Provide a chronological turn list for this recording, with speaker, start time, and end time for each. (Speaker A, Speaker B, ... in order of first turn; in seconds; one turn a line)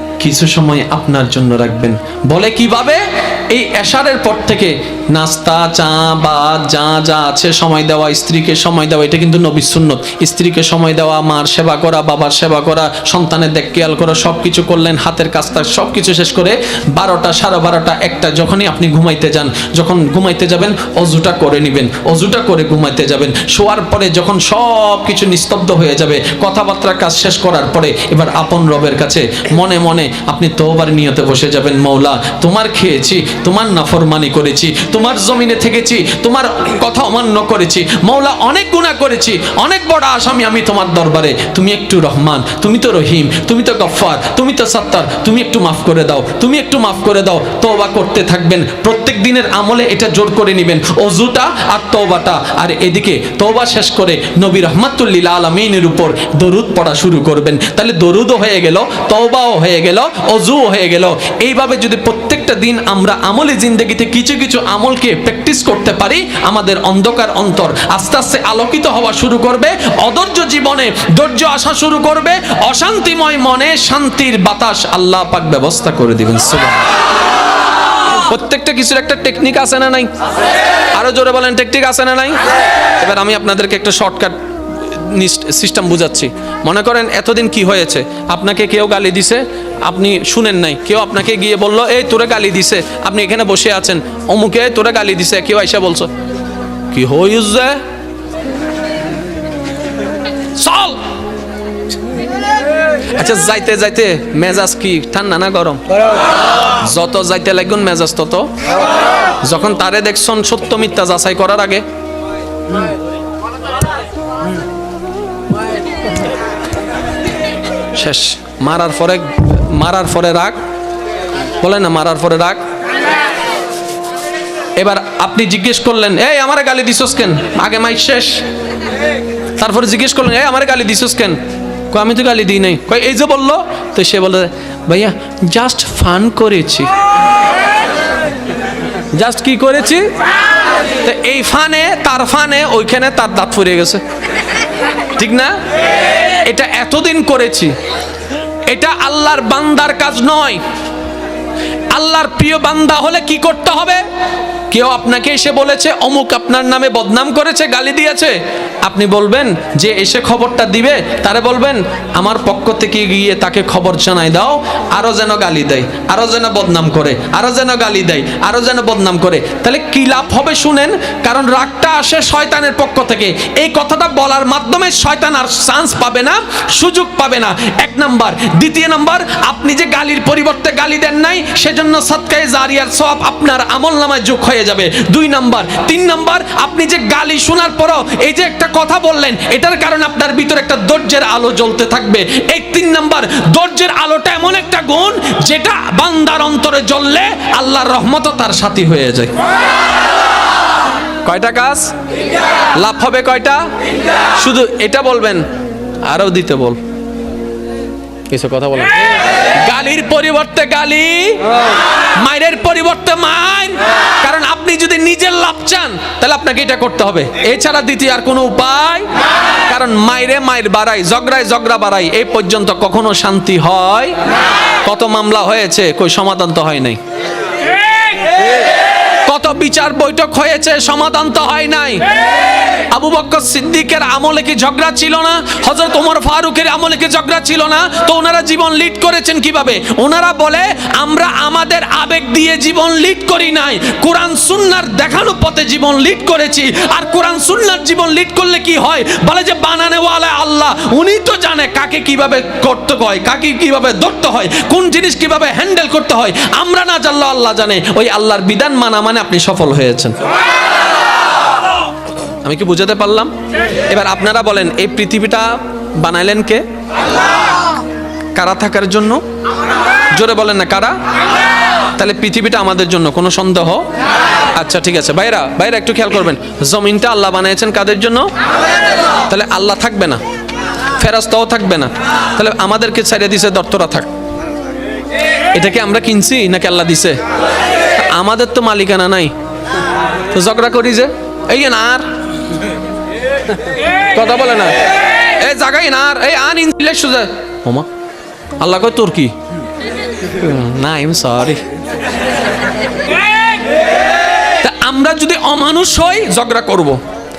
Speaker A: 0.2-76.8
Speaker A: 78.1-80.1
Speaker A: 80.9-82.4
Speaker A: 83.0-96.1
Speaker A: 96.9-97.8
Speaker A: 100.6-101.0
Speaker A: 103.1-105.8
Speaker A: 106.8-108.5
Speaker A: 109.4-111.8
Speaker A: 117.9-120.6
Speaker A: 121.6-122.6
Speaker A: 124.8-128.4
Speaker A: 129.6-131.4
Speaker A: 131.9-136.9
Speaker A: 139.1-140.1
Speaker A: 141.0-144.0
Speaker A: 145.2-145.6
Speaker A: 146.4-147.7
Speaker A: 148.7-150.6
Speaker A: 151.9-154.0
Speaker A: 154.7-199.3
Speaker A: 201.2-201.9
Speaker A: 202.8-203.6
Speaker A: 204.4-205.4
Speaker A: 206.0-206.8
Speaker A: 208.3-208.9
Speaker A: 209.6-211.4
Speaker A: 212.2-219.1
Speaker A: 219.7-224.1
Speaker A: 224.8-227.0
Speaker A: 229.2-232.0
Speaker A: 232.9-260.1
Speaker A: 262.4-263.3
Speaker A: 263.9-266.6
Speaker A: 268.3-269.2
Speaker A: 270.1-271.0
Speaker A: 271.9-273.9
Speaker A: 274.5-278.3
Speaker A: 279.3-280.2
Speaker A: 281.0-284.1
Speaker A: 285.5-287.2
Speaker A: 288.0-289.3
Speaker A: 290.3-292.0
Speaker A: 294.1-294.8
Speaker A: 295.4-297.9
Speaker A: 298.6-299.3
Speaker A: 300.2-301.6
Speaker A: 304.6-307.0